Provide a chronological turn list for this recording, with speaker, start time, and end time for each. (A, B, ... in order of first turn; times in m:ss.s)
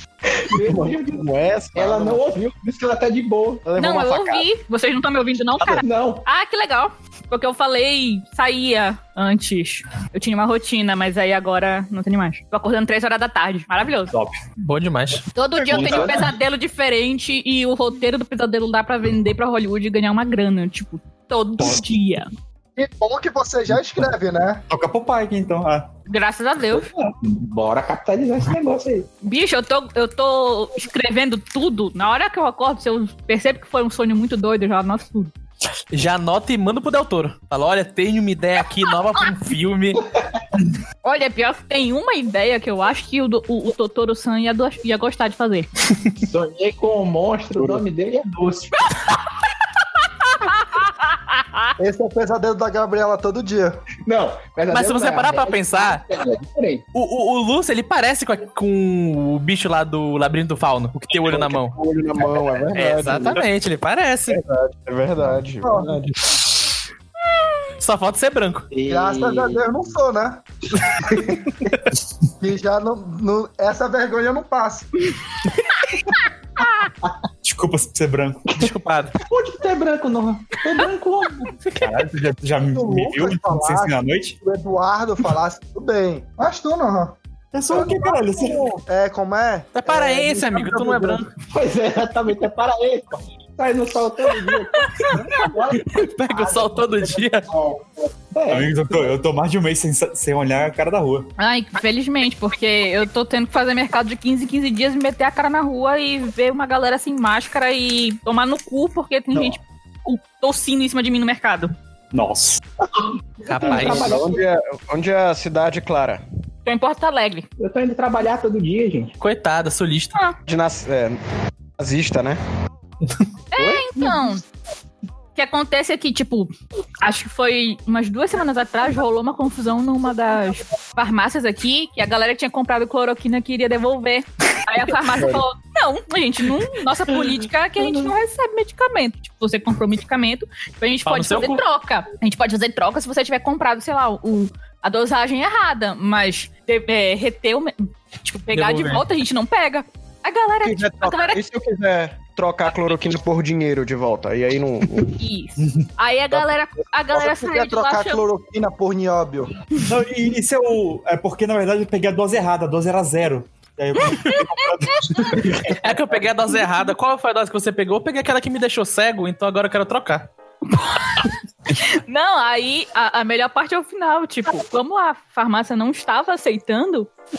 0:00.4-0:03.6 A
0:00.5-0:02.2 B
0:03.6-0:04.4 B
0:03.8-0:14.1 C
0:05.8-0:06.2 A
0:14.6-0:15.2 D
0:15.3-0:22.3 C
0:15.6-0:16.2 E
0:15.7-0:16.2 A
0:22.8-0:24.6 F
0:24.7-0:25.9 E
0:26.1-0:26.9 C
0:26.7-0:29.1 A
0:29.2-0:35.3 C
0:35.9-0:40.0 D
0:41.0-0:45.7 C
0:46.3-0:48.8 A
0:47.6-0:47.8 E
0:51.8-0:53.8 F
0:54.0-0:56.8 A
0:54.7-0:56.0 D
0:56.9-1:01.8 D
1:01.1-1:03.5 B
1:02.7-1:04.4 D
1:04.3-1:06.4 B
1:05.6-1:06.0 F
1:07.8-1:08.7 D
1:08.7-1:09.6 A
1:08.9-1:10.4 F
1:12.4-1:15.1 F
1:17.4-1:18.6 E
1:18.5-1:19.1 D
1:19.2-1:21.6 A
1:21.6-1:22.0 D
1:21.8-1:24.4 E
1:22.7-1:27.2 F
1:27.5-1:28.8 E
1:27.7-1:31.2 F
1:29.7-1:31.3 D
1:31.5-1:39.0 A
1:35.9-1:37.5 D
1:38.5-1:41.3 E
1:41.4-1:51.7 C
1:52.1-1:52.6 E
1:53.5-1:54.4 A
1:53.5-1:54.1 D
1:53.6-1:56.2 B
1:56.6-1:57.4 C
1:57.6-1:59.1 A
1:59.2-2:00.2 D
2:00.5-2:01.2 B
2:01.8-2:02.4 B
2:03.5-2:04.4 C
2:03.6-2:04.3 A
2:05.3-2:31.4 C
2:21.0-2:21.6 D
2:28.5-2:29.0 D
2:30.6-2:35.1 B
2:35.2-2:38.2 C
2:35.6-2:35.8 E
2:37.1-2:39.5 F
2:39.8-2:45.8 E
2:44.1-2:44.4 C
2:45.0-2:45.4 C
2:45.8-2:50.3 D
2:50.7-2:57.1 C